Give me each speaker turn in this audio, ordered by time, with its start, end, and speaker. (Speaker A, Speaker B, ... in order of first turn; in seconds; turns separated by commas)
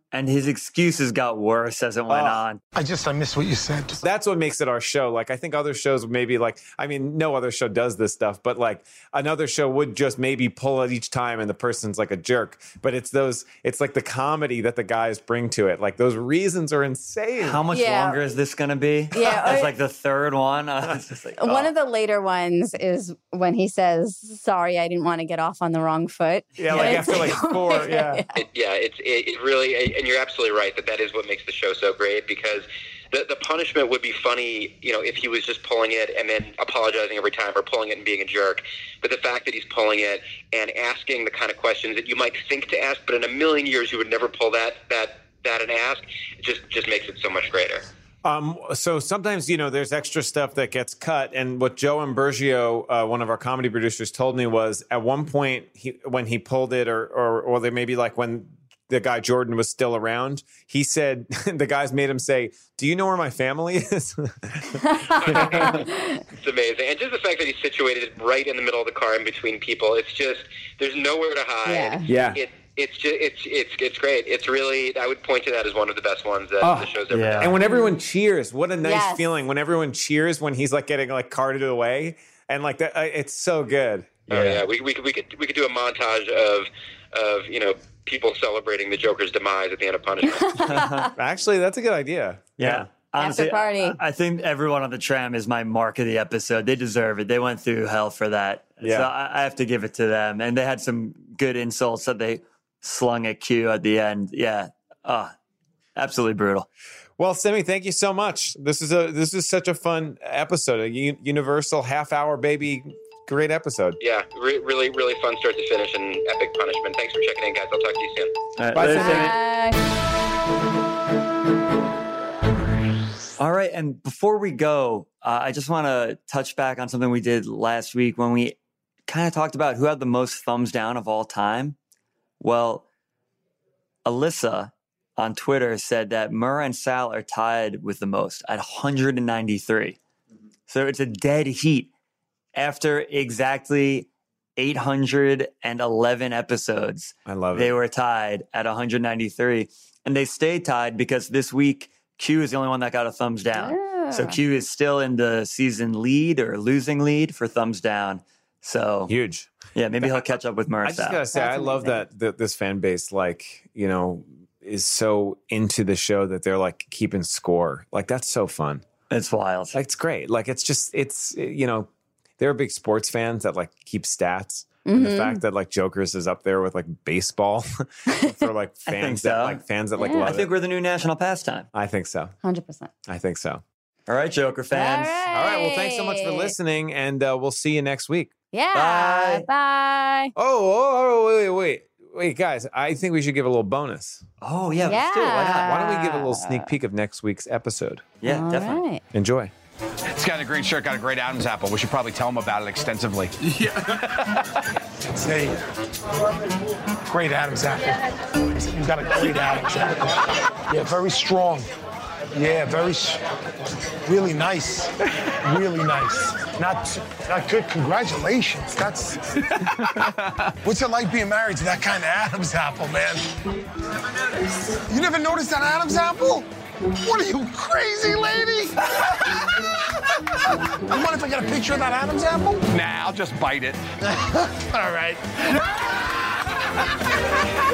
Speaker A: 0.1-2.6, Speaker B: 2.1-2.4, Speaker C: 2.7-4.0, Speaker B: 4.0-17.6, Speaker A: 17.4-21.7, Speaker D: 17.7-18.2, Speaker D: 19.1-19.7, Speaker D: 21.4-28.4, Speaker B: 26.6-28.2, Speaker A: 26.7-27.2, Speaker E: 28.4-47.9, Speaker B: 48.2-65.9, Speaker D: 64.8-66.2, Speaker E: 66.3-77.5, Speaker D: 71.7-72.1, Speaker B: 72.0-72.4, Speaker B: 76.6-84.5, Speaker A: 77.1-77.5, Speaker D: 77.6-77.9, Speaker D: 78.8-79.2, Speaker A: 84.3-84.6, Speaker E: 84.3-90.6, Speaker D: 90.2-91.1, Speaker A: 90.6-91.1, Speaker B: 91.1-92.9, Speaker A: 92.6-105.3, Speaker D: 93.2-94.0, Speaker B: 98.8-99.1, Speaker A: 106.0-106.7, Speaker B: 107.2-114.0, Speaker E: 114.0-118.3, Speaker A: 118.6-119.4, Speaker B: 118.7-119.3, Speaker D: 118.8-119.8, Speaker A: 123.4-131.8, Speaker A: 132.4-132.9, Speaker A: 134.0-140.0, Speaker A: 140.7-141.9, Speaker A: 142.6-159.1, Speaker B: 147.3-147.8, Speaker D: 153.5-154.4, Speaker B: 159.1-160.2, Speaker A: 159.7-161.2, Speaker B: 160.8-168.8, Speaker D: 161.3-162.0, Speaker A: 169.1-169.8, Speaker B: 169.7-180.5, Speaker D: 174.8-175.4, Speaker A: 178.9-181.7, Speaker D: 180.0-180.3, Speaker B: 181.7-182.3, Speaker D: 182.4-182.9, Speaker B: 183.1-183.6, Speaker A: 184.1-185.2, Speaker D: 184.7-186.5, Speaker B: 185.3-188.3, Speaker D: 188.5-190.3, Speaker A: 188.7-189.4, Speaker B: 190.3-194.2, Speaker A: 194.4-195.7, Speaker D: 194.8-196.7, Speaker B: 195.6-198.0, Speaker A: 198.2-198.8, Speaker D: 198.2-199.0, Speaker B: 199.1-199.5, Speaker F: 200.1-203.3, Speaker C: 205.2-205.6, Speaker C: 207.0-211.7, Speaker C: 212.3-213.2, Speaker C: 214.0-219.6, Speaker C: 220.6-223.3, Speaker C: 224.7-229.6, Speaker C: 230.7-232.6, Speaker F: 232.7-233.8, Speaker C: 234.1-235.6